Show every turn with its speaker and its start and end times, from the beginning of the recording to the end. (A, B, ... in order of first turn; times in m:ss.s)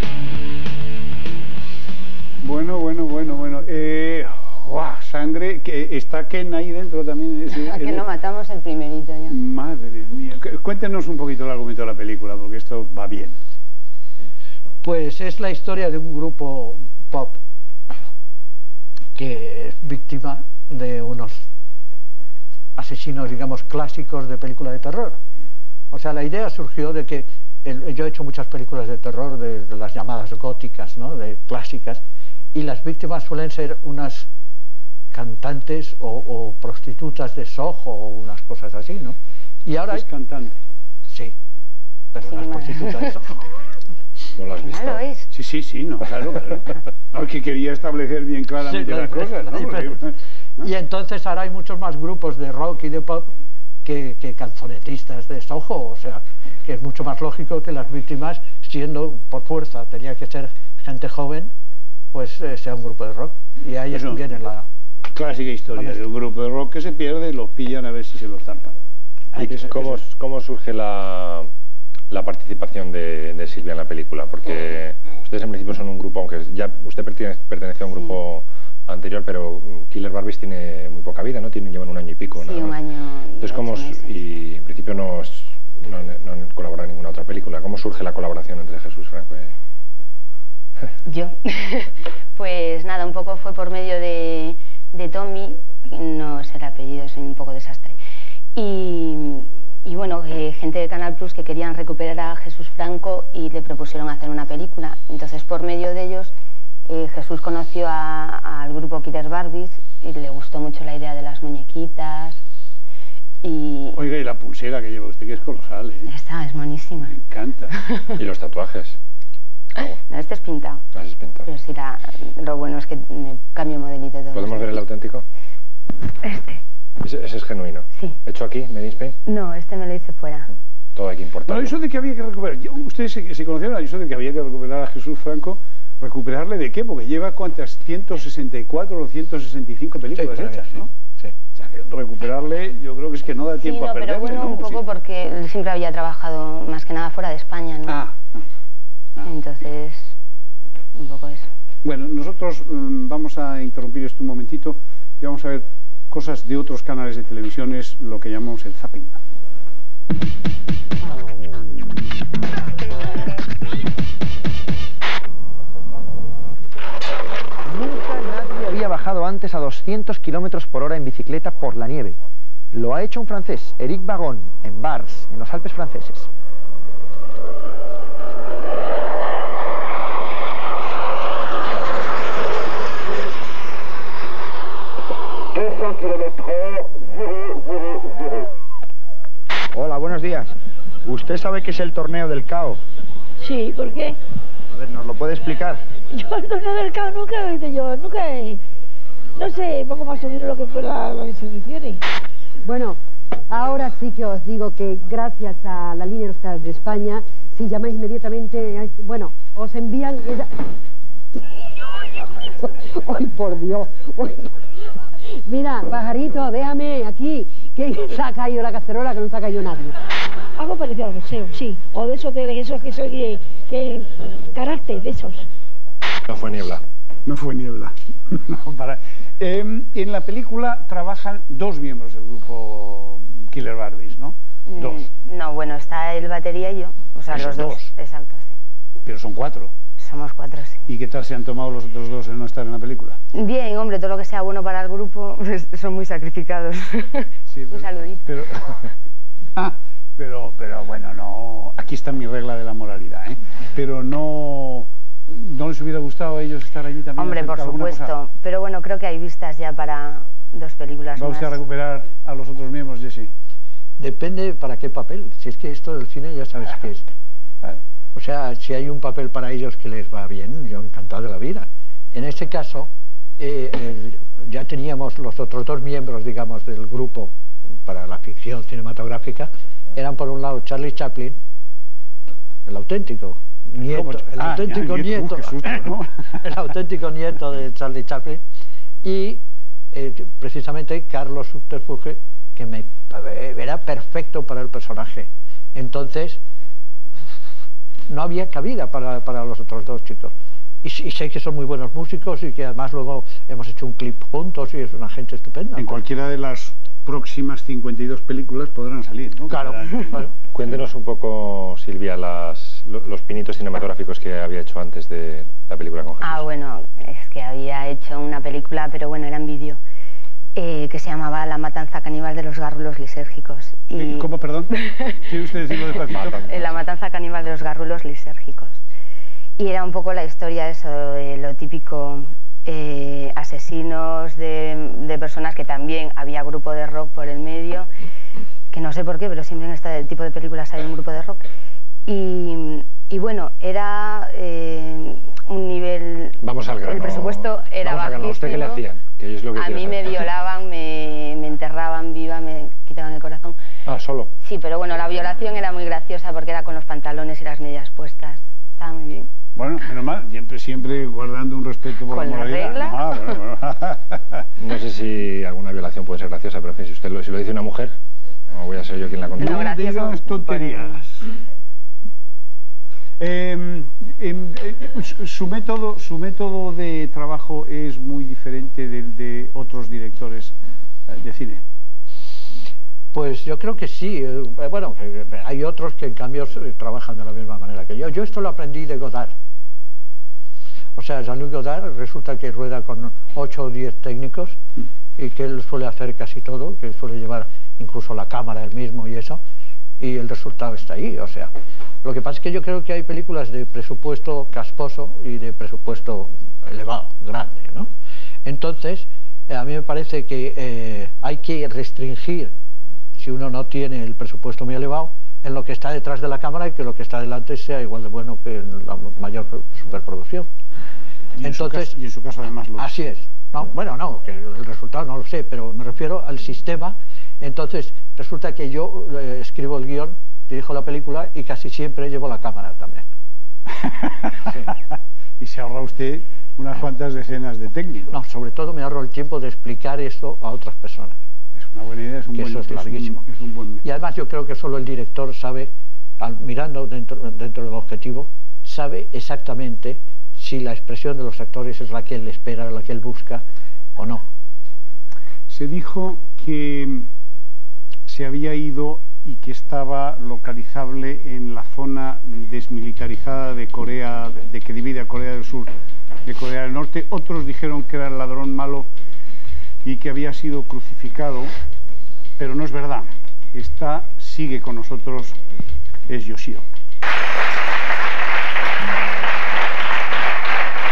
0:02.4-0:08.0 A
0:07.5-0:09.4 B
0:09.3-0:13.4 A
0:14.8-0:17.4 C
0:19.2-0:21.5 C
0:22.8-0:25.2 C
0:25.9-0:32.0 C
0:32.5-0:34.3 C
0:35.1-0:40.1 C
0:39.9-0:40.6 A
0:41.1-0:41.4 C
0:42.1-0:43.4 C
0:42.3-0:43.2 B
0:44.4-0:45.0 D
0:44.6-0:45.3 B
0:45.3-0:50.1 A
0:48.6-0:50.0 C
0:50.6-0:53.3 C
0:53.8-1:01.5 C
1:02.1-1:04.7 C
1:03.9-1:04.2 A
1:05.1-1:08.8 A
1:05.8-1:06.1 C
1:09.3-1:10.0 A
1:09.4-1:11.5 D
1:12.1-1:22.8 D
1:17.9-1:18.2 B
1:22.4-1:24.2 B
1:23.4-1:29.5 D
1:31.1-1:38.0 B
1:38.6-1:46.3 B
1:46.9-1:52.4 B
1:53.4-1:54.0 B
1:54.0-1:56.1 A
1:56.1-1:57.2 B
1:57.2-1:57.8 A
1:57.7-1:58.1 B
1:58.2-1:59.0 D
1:59.8-2:00.8 B
2:01.0-2:01.5 D
2:01.5-2:04.8 B
2:04.3-2:05.2 D
2:06.2-2:06.6 B
2:07.0-2:09.2 D
2:09.3-2:10.5 B
2:11.0-2:11.8 D
2:11.4-2:20.9 A
2:20.2-2:21.3 C
2:21.5-2:24.8 A
2:23.6-2:28.0 B
2:27.9-2:28.4 A
2:29.2-2:30.2 B
2:31.0-2:31.5 B
2:31.8-2:39.2 A
2:47.6-2:52.2 E
2:52.7-2:56.3 E
3:09.7-3:10.5 E
3:11.0-3:12.8 E
3:13.4-3:14.2 F
3:14.7-3:15.8 E
3:16.1-3:18.6 F
3:19.4-3:22.0 F
3:22.6-3:23.0 G
3:23.5-3:30.5 G
3:32.8-3:34.5 G
3:35.5-3:39.9 G
3:40.6-3:45.5 F
3:46.3-3:46.8 D
3:47.3-3:55.0 A
3:54.7-3:58.6 B
3:57.3-3:57.8 A
3:59.0-3:59.7 A
4:00.0-4:00.8 B
4:00.9-4:03.2 A
4:03.3-4:08.3 B
4:07.5-4:08.8 A
4:09.6-4:18.1 A
4:17.2-4:21.6 B
4:21.2-4:23.3 A
4:24.0-4:27.1 C
4:28.2-4:41.4 C
4:42.7-4:48.4 C
4:43.9-4:46.2 A
4:49.0-4:56.4 C
4:58.1-5:00.3 C
5:00.8-5:06.0 C
5:05.8-5:10.2 A
5:09.5-5:10.3 C
5:10.5-5:16.5 D
5:16.2-5:19.8 B
5:20.6-5:25.2 B
5:24.0-5:24.7 A
5:25.3-5:26.7 A
5:26.1-5:28.8 B
5:29.6-5:37.9 B
5:38.7-5:41.5 B
5:42.1-5:48.8 B
5:46.4-5:50.3 D
5:49.5-5:53.6 B
5:53.9-5:54.3 D
5:54.4-5:59.3 B
5:59.6-6:04.5 A
6:02.1-6:03.3 B
6:04.6-6:07.9 D
6:08.5-6:09.6 D
6:09.4-6:11.0 B
6:09.4-6:11.3 A
6:13.2-6:20.6 A
6:21.1-6:21.6 A
6:23.1-6:29.3 C
6:31.0-6:34.6 C
6:35.2-6:39.4 C
6:40.0-6:41.5 C
6:42.0-6:47.9 C
6:48.4-6:52.5 C
6:53.2-7:00.5 C
7:01.4-7:02.9 A
7:01.4-7:02.0 C
7:02.8-7:13.1 C
7:13.8-7:18.2 A
7:18.1-7:21.2 C
7:21.6-7:23.8 A
7:22.3-7:23.2 C
7:23.8-7:33.4 C
7:34.0-7:34.2 C
7:35.5-7:37.1 A
7:38.1-7:45.7 A
7:46.3-7:48.9 A
7:49.8-7:51.5 A
7:52.4-7:55.4 A
7:56.1-7:56.6 A